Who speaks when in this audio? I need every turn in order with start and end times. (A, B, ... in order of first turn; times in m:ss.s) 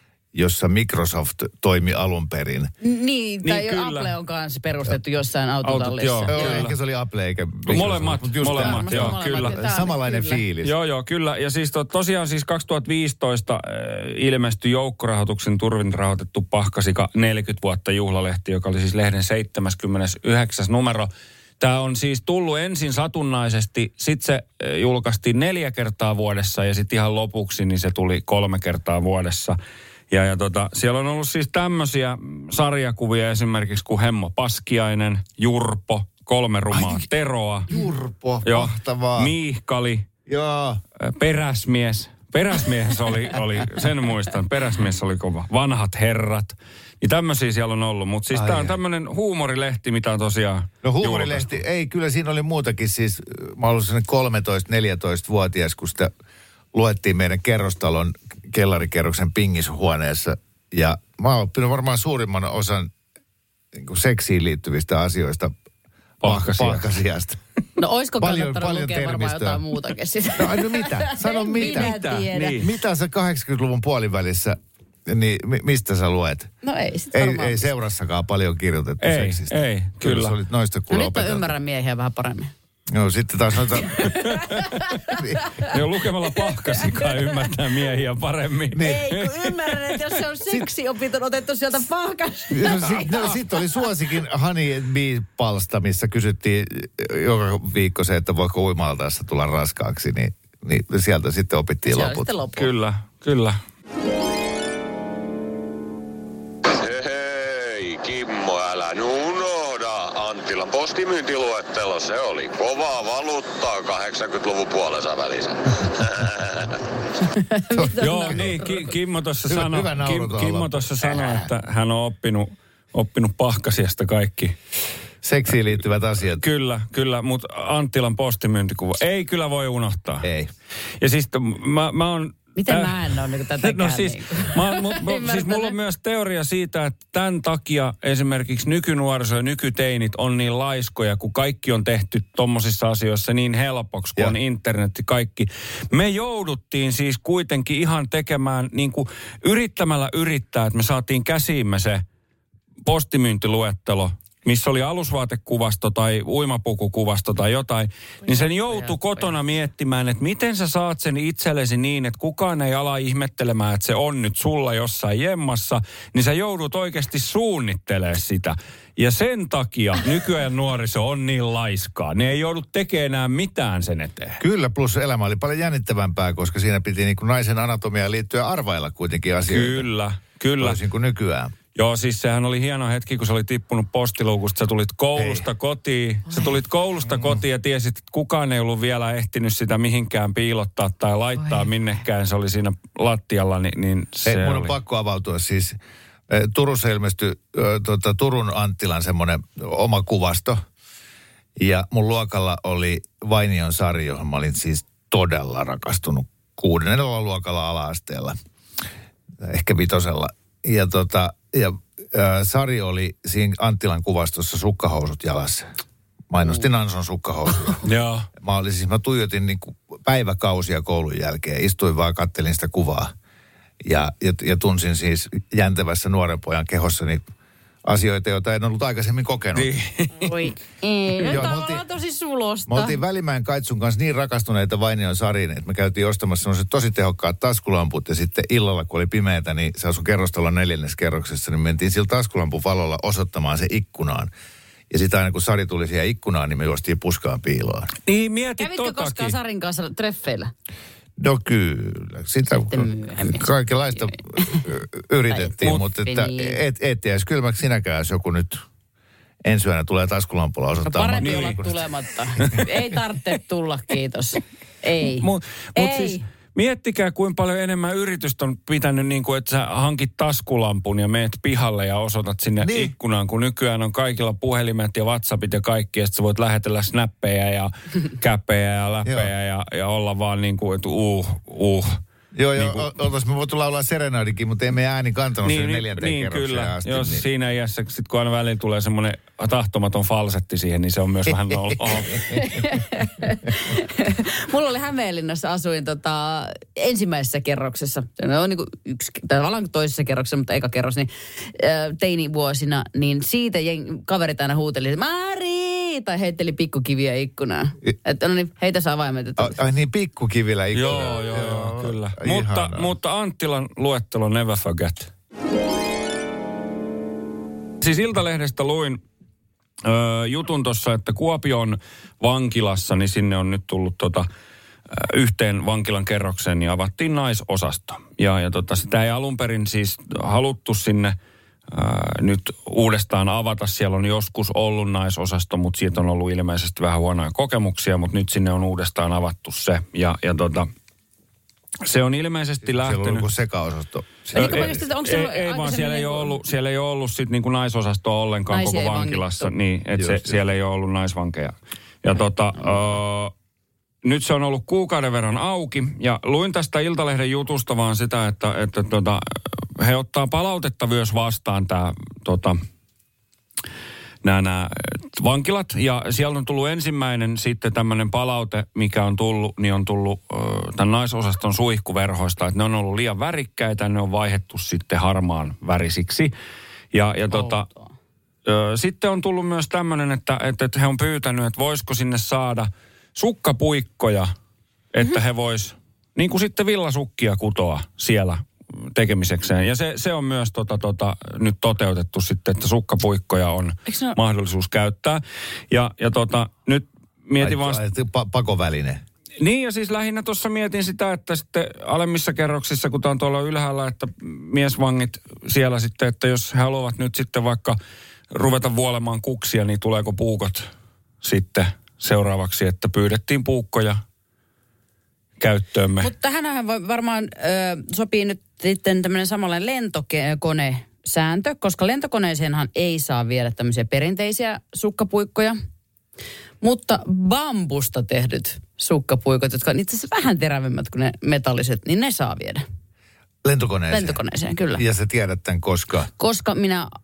0:00.3-0:02.7 A
0:02.8-0:06.6 B
0:03.4-0:04.1 C
0:05.6-0:06.7 C
0:06.3-0:10.7 A
0:07.6-0:09.7 C
0:08.4-0:10.4 B
0:10.6-0:29.6 C
0:30.1-0:37.7 C
0:36.7-0:37.0 A
0:37.7-0:39.3 A
0:38.4-0:40.1 C
0:40.3-0:40.8 A
0:41.0-0:51.6 C
0:48.3-0:48.8 A
0:50.8-0:56.1 A
0:56.7-1:02.9 A
1:03.7-1:05.5 A
1:06.2-1:06.8 C
1:06.2-1:07.4 A
1:07.8-1:12.6 B
1:08.2-1:09.6 A
1:10.4-1:11.9 A
1:11.6-1:12.6 C
1:12.6-1:16.5 A
1:16.6-1:17.7 B
1:17.1-1:21.5 A
1:19.0-1:20.4 C
1:20.9-1:22.5 B
1:22.9-1:24.1 A
1:24.0-1:25.7 B
1:24.0-1:24.7 C
1:25.2-1:25.5 A
1:25.6-1:29.8 C
1:26.8-1:27.3 B
1:28.7-1:29.0 A
1:28.8-1:33.4 B
1:32.5-1:42.3 A
1:41.8-1:42.7 B
1:42.5-1:43.6 C
1:46.7-1:56.8 D
1:57.3-1:58.8 B
1:57.7-1:58.5 A
1:58.0-2:04.5 C
1:59.5-2:01.5 A
2:05.2-2:06.4 A
2:06.4-2:10.3 C
2:10.2-2:10.5 A
2:11.0-2:32.0 C
2:12.6-2:15.7 B
2:32.8-2:54.4 C
2:38.3-2:38.9 B
2:54.4-2:59.9 A
2:59.5-3:00.8 C
3:00.6-3:01.5 A
3:01.7-3:14.7 C
3:05.2-3:05.5 A
3:14.2-3:15.8 A
3:16.3-3:20.6 A
3:21.6-3:28.4 A
3:29.4-3:35.7 A
3:36.3-3:37.8 A
3:37.8-3:38.3 C
3:38.4-3:43.1 A
3:43.8-3:47.2 A
3:47.8-3:49.7 A
3:49.5-3:50.3 C
3:50.2-3:53.0 B
3:51.2-3:51.8 A
3:52.7-4:04.3 A
4:04.9-4:07.9 A
4:08.0-4:09.4 C
4:08.6-4:10.5 B
4:11.2-4:18.6 A
4:12.7-4:13.5 B
4:14.0-4:14.6 B
4:15.3-4:16.6 B
4:19.4-4:21.8 A
4:20.8-4:26.2 B
4:21.2-4:21.6 C
4:22.4-4:22.6 C
4:25.2-4:42.0 C
4:32.6-4:32.9 A
4:42.3-4:47.2 A
4:42.6-4:42.9 C
4:45.4-4:52.4 C
4:51.3-4:52.6 A
4:52.3-5:09.6 B
5:09.4-5:12.9 A
5:10.7-5:15.1 C
5:17.8-5:19.0 C
5:19.8-5:24.3 C
5:24.9-5:31.1 C
5:31.7-5:40.7 C
5:41.8-5:43.3 C
5:42.6-5:44.8 A
5:44.3-5:46.4 B
5:44.3-5:53.3 C
5:48.5-5:49.5 B
5:50.0-5:50.4 A
5:54.0-6:02.6 C
6:04.2-6:16.3 C
6:16.9-6:17.6 C
6:17.3-6:17.9 B
6:18.4-6:24.3 C
6:24.9-6:37.8 C
6:33.9-6:34.2 B
6:37.4-6:39.0 A
6:39.4-6:47.8 C
6:48.3-6:50.7 C
6:51.2-6:54.0 C
6:55.4-6:56.1 C
6:56.0-7:05.6 B
7:06.6-7:12.6 B
7:13.4-7:14.2 A
7:13.9-7:14.8 B
7:14.7-7:16.1 A
7:16.2-7:16.9 B